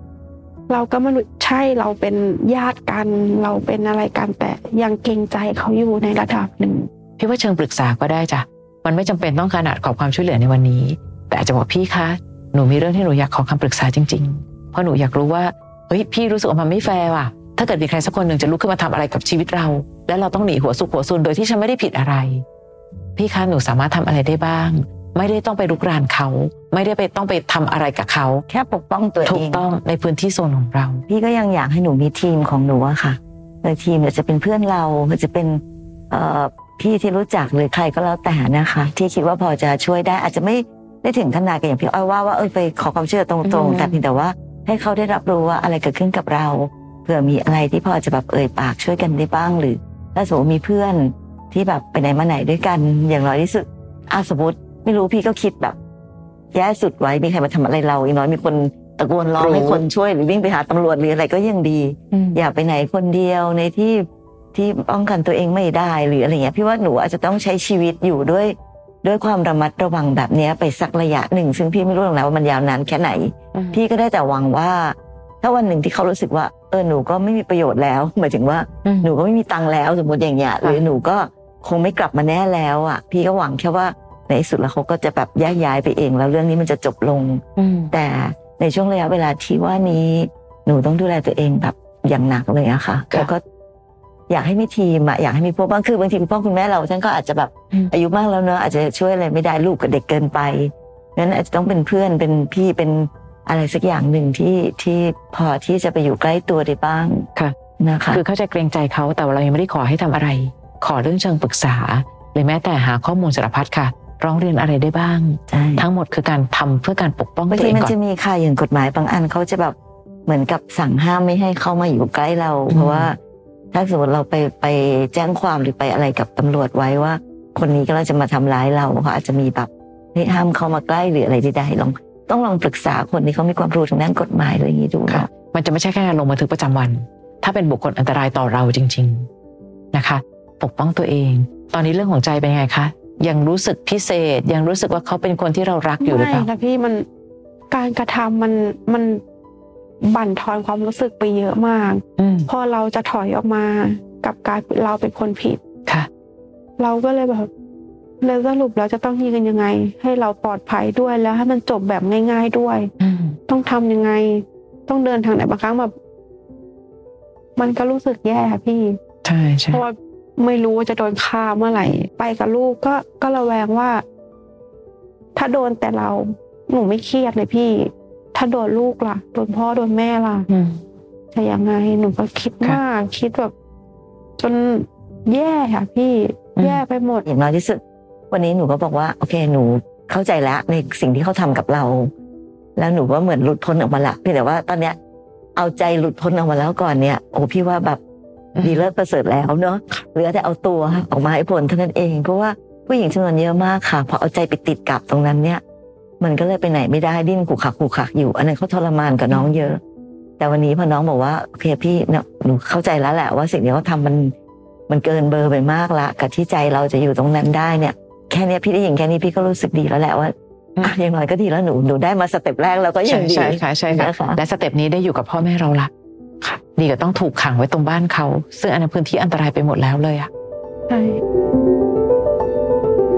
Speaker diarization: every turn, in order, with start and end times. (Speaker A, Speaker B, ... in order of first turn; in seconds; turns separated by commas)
Speaker A: 0.7-6.9, Speaker B: 7.2-22.4, Speaker B: 23.1-28.4, Speaker C: 28.5-29.6, Speaker B: 29.2-31.0, Speaker C: 31.1-55.8, Speaker B: 43.4-44.0, Speaker C: 56.5-93.4, Speaker B: 59.4-59.8, Speaker B: 62.1-62.4, Speaker B: 73.5-73.8, Speaker B: 78.8-79.1, Speaker B: 87.6-87.9, Speaker C: 94.3-107.3, Speaker C: 107.8-108.2, Speaker B: 108.1-117.9, Speaker C: 115.5-115.9, Speaker C: 117.5-123.2, Speaker B: 122.7-123.1, Speaker C: 123.7-135.3, Speaker B: 135.1-139.3, Speaker B: 139.9-146.5, Speaker A: 146.0-147.0, Speaker A: 147.7-149.2, Speaker A: 150.0-155.6, Speaker B: 152.2-152.5, Speaker A: 156.8-157.5, Speaker A: 158.2-162.9, Speaker B: 163.0-163.4, Speaker A: 163.5-165.9, Speaker A: 167.6-169.0, Speaker B: 169.2-169.8, Speaker A: 169.7-174.0, Speaker A: 175.3-180.5, Speaker B: 180.5-180.8, Speaker A: 181.3-183.5, Speaker A: 184.4-187.2, Speaker B: 186.6-186.8, Speaker C: 187.2-192.1, Speaker C: 192.8-195.0, Speaker C: 195.6-198.0, Speaker B: 198.5-198.9, Speaker C: 198.6-205.6, Speaker C: 206.2-209.8, Speaker C: 210.4-214.3, Speaker C: 214.9-224.4, Speaker B: 223.0-225.9, Speaker B: 226.8-230.3, Speaker A: 230.9-231.2